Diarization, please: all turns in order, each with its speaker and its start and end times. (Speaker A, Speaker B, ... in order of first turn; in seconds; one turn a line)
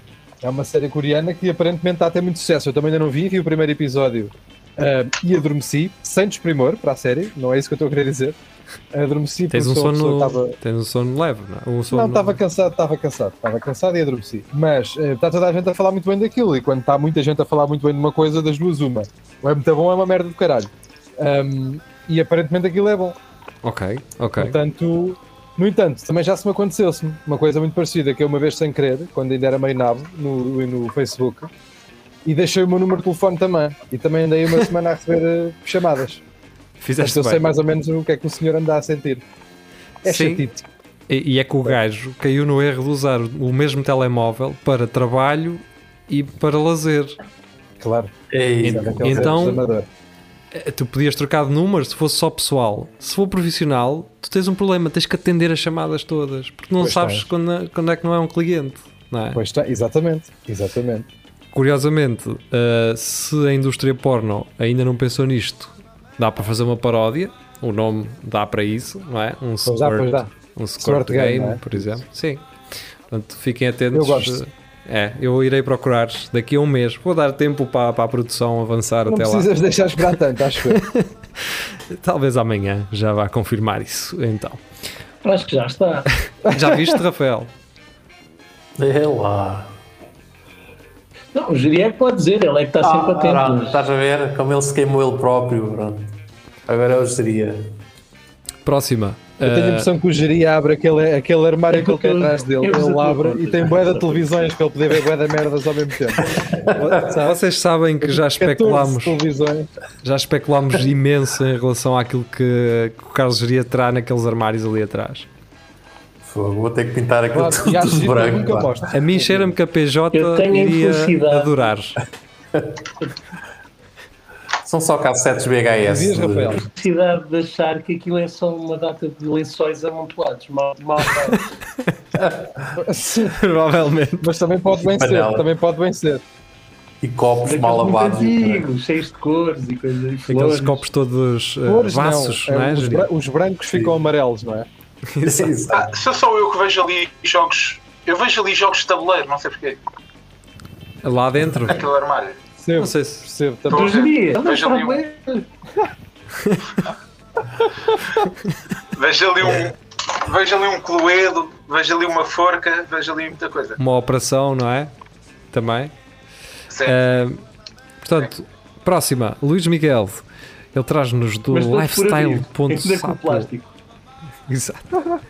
Speaker A: 0.4-8.3
Speaker A: 8.9-10.6
Speaker B: 9.5-12.4
Speaker A: 11.9-23.1
Speaker B: 23.6-24.6
Speaker A: 24.4-31.5
Speaker A: 32.2-36.2
Speaker B: 36.8-37.5
Speaker A: 37.0-39.2
Speaker B: 40.0-40.4
Speaker A: 40.0-40.6
Speaker B: 41.1-47.2
Speaker A: 47.8-48.1
Speaker C: 48.3-49.5
Speaker A: 48.6-49.9
Speaker B: 48.6-49.6
Speaker B: 50.5-59.4
Speaker A: 56.8-57.2
Speaker A: 59.3-61.0
Speaker B: 61.5-72.5
Speaker A: 69.7-70.3
Speaker A: 70.8-71.8
Speaker B: 73.1-79.5
Speaker A: 73.9-74.4
Speaker A: 79.1-80.8
Speaker B: 80.7-84.6
Speaker D: 85.2-86.1
Speaker B: 86.3-87.5
Speaker A: 86.5-86.9
Speaker C: 88.8-89.7
Speaker D: 91.3-93.8
Speaker C: 92.8-96.1
Speaker C: 96.7-97.7
Speaker B: 98.6-99.9
Speaker A: 99.4-106.2
Speaker D: 101.7-104.4
Speaker C: 106.2-107.0
Speaker B: 106.7-109.2
Speaker A: 106.9-107.4
Speaker A: 108.0-109.7
Speaker B: 110.0-115.3
Speaker C: 116.2-118.8
Speaker A: 117.3-119.5
Speaker B: 118.9-122.0
Speaker D: 120.1-121.7
Speaker C: 122.5-122.8
Speaker C: 124.6-126.7
Speaker A: 125.8-126.6
Speaker D: 126.8-131.4
Speaker C: 132.1-132.8
Speaker A: 132.8-133.4
Speaker B: 133.3-134.3
Speaker A: 134.2-136.2
Speaker C: 134.8-135.5
Speaker C: 137.0-138.7
Speaker D: 137.4-140.8
Speaker B: 140.3-143.1
Speaker A: 141.7-144.7
Speaker C: 143.7-144.0
Speaker B: 145.1-145.5
Speaker C: 145.2-145.9
Speaker E: 145.7-149.8
Speaker B: 151.0-151.8
Speaker E: 151.6-152.4
Speaker A: 152.6-154.1
Speaker B: 152.8-153.3
Speaker E: 153.7-155.0
Speaker D: 153.7-155.5
Speaker E: 158.9-163.8
Speaker B: 163.8-164.9
Speaker B: 165.5-165.9
Speaker E: 166.7-167.0
Speaker B: 166.8-167.4
Speaker B: 168.0-173.5
Speaker D: 171.5-173.7
Speaker B: 174.5-175.0